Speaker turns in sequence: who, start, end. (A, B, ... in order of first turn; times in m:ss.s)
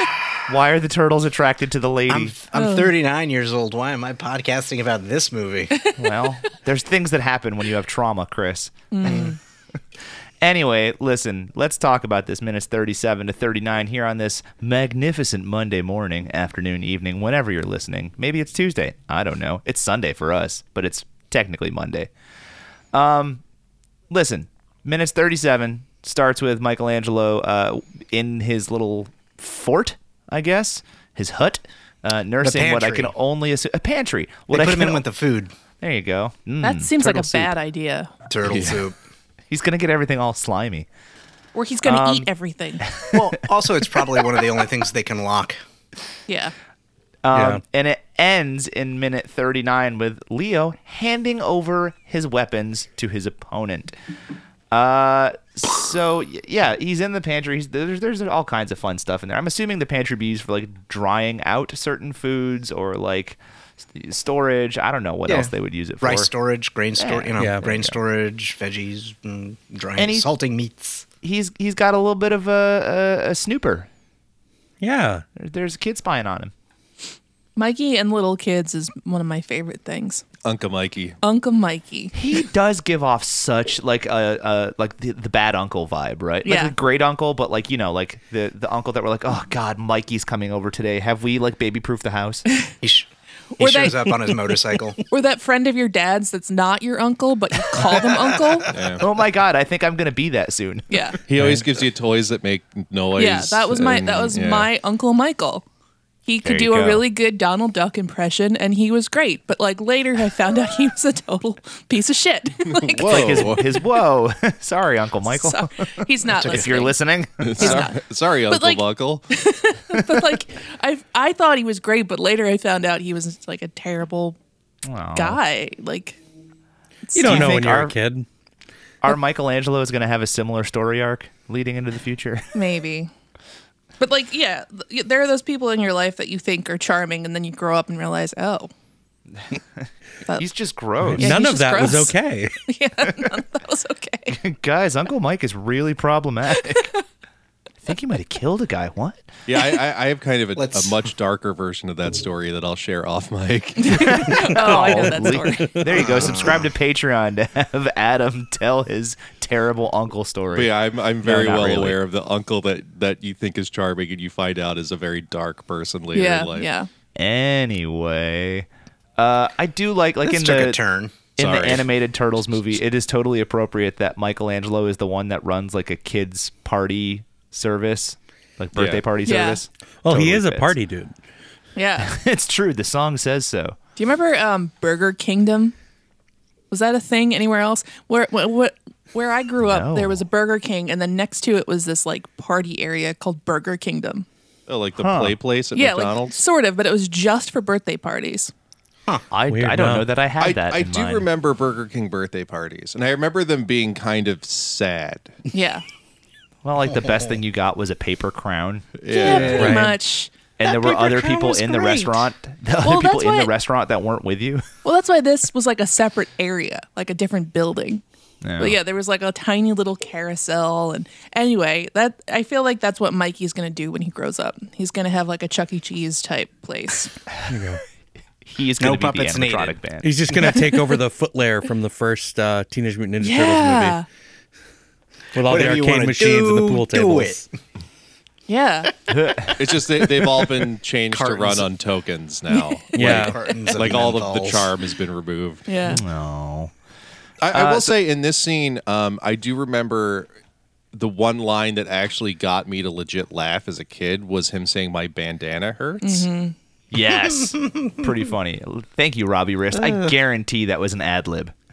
0:00.5-0:02.3 A
0:02.1-0:05.9 B
0:02.5-0:02.9 C
0:06.0-0:09.3 A
0:08.9-0:09.4 C
0:09.0-0:09.3 B
0:10.4-0:22.1 A
0:22.9-0:23.4 A
0:24.1-0:35.0 A
0:32.4-0:33.1 B
0:34.5-0:35.5 B
0:35.8-0:37.5 A
0:36.6-0:38.1 C
0:38.3-0:39.0 B
0:38.4-0:38.8 D
0:39.5-0:40.8 A
0:41.5-0:42.9 C
0:41.8-0:42.3 A
0:42.8-0:43.2 A
0:43.1-0:45.6 B
0:46.3-0:46.5 C
0:47.2-0:53.9 A
0:47.3-0:47.6 E
0:54.7-1:06.3 A
1:05.2-1:11.0 B
1:07.0-1:08.0 A
1:07.4-1:07.7 E
1:10.0-1:10.3 A
1:11.2-1:13.9 A
1:14.8-1:15.2 E
1:15.4-1:16.5 A
1:17.6-1:20.2 C
1:20.4-1:21.2 D
1:21.2-1:22.2 C
1:22.1-1:32.4 A
1:26.4-1:26.7 C
1:32.8-1:35.0 B
1:33.6-1:34.3 C
1:35.1-1:38.7 C
1:38.7-1:39.0 D
1:39.0-1:40.8 A
1:40.9-1:41.2 C
1:41.3-1:44.7 D
1:41.4-1:41.6 E
1:43.2-1:45.6 C
1:46.2-1:53.6 C
1:46.4-1:47.0 A
1:52.7-1:53.8 D
1:53.0-1:57.9 A
1:55.3-1:57.0 C
1:56.4-1:56.8 B
1:57.4-1:59.3 D
1:57.6-2:04.4 C
1:59.9-2:00.2 A
2:04.8-2:05.4 A
2:05.1-2:06.2 C
2:07.1-2:07.6 C
2:07.2-2:08.2 E
2:07.2-2:07.9 A
2:09.0-2:12.5 A
2:12.5-2:13.1 C
2:14.0-2:18.7 C
2:19.4-2:19.8 A
2:20.4-2:21.4 A
2:21.0-2:22.5 E
2:21.2-2:24.4 C
2:24.3-2:26.9 A
2:26.6-2:27.0 C
2:27.8-2:29.3 A
2:29.5-2:34.4 D
2:30.6-2:31.0 B
2:33.8-2:35.8 C
2:33.9-2:40.7 A
2:34.7-2:35.9 E
2:35.9-2:36.7 B
2:40.5-2:46.7 D
2:41.2-2:42.0 A
2:46.1-2:46.9 C
2:47.2-2:50.8 A
2:50.2-2:51.3 B
2:51.4-3:00.7 A
2:51.4-2:51.8 D
2:58.7-2:59.0 D
2:59.2-2:59.6 C
3:00.0-3:01.1 E
3:01.8-3:02.1 C
3:02.0-3:03.8 A
3:04.0-3:05.7 C
3:06.7-3:14.2 C
3:09.6-3:10.2 A
3:14.7-3:16.4 D
3:15.0-3:15.4 A
3:15.7-3:18.5 C
3:19.3-3:21.3 A
3:19.5-3:20.1 E
3:20.4-3:25.3 D
3:25.5-3:25.8 C
3:26.6-3:29.7 A
3:26.8-3:27.4 B
3:29.0-3:29.8 D
3:29.1-3:30.3 C
3:29.6-3:30.0 E
3:30.6-3:34.6 A
3:30.6-3:32.2 B
3:32.8-3:33.5 C
3:34.8-3:38.0 C
3:38.4-3:38.8 A
3:38.6-3:47.1 C
3:47.5-3:47.8 E
3:48.4-3:50.2 A
3:48.8-3:49.8 B
3:50.0-3:54.0 E
3:53.2-3:54.0 C
3:55.3-3:57.4 E
3:55.4-3:57.5 B
3:58.5-3:58.9 C
3:59.1-3:59.6 A
3:59.6-4:05.6 D
4:00.0-4:01.7 B
4:02.5-4:02.8 C
4:02.9-4:04.7 B
4:03.0-4:03.4 E
4:05.7-4:06.0 C
4:05.9-4:06.7 A
4:07.4-4:10.3 D
4:07.5-4:08.0 A
4:10.9-4:16.3 D
4:16.0-4:16.5 C
4:16.9-4:21.5 A
4:19.8-4:20.1 B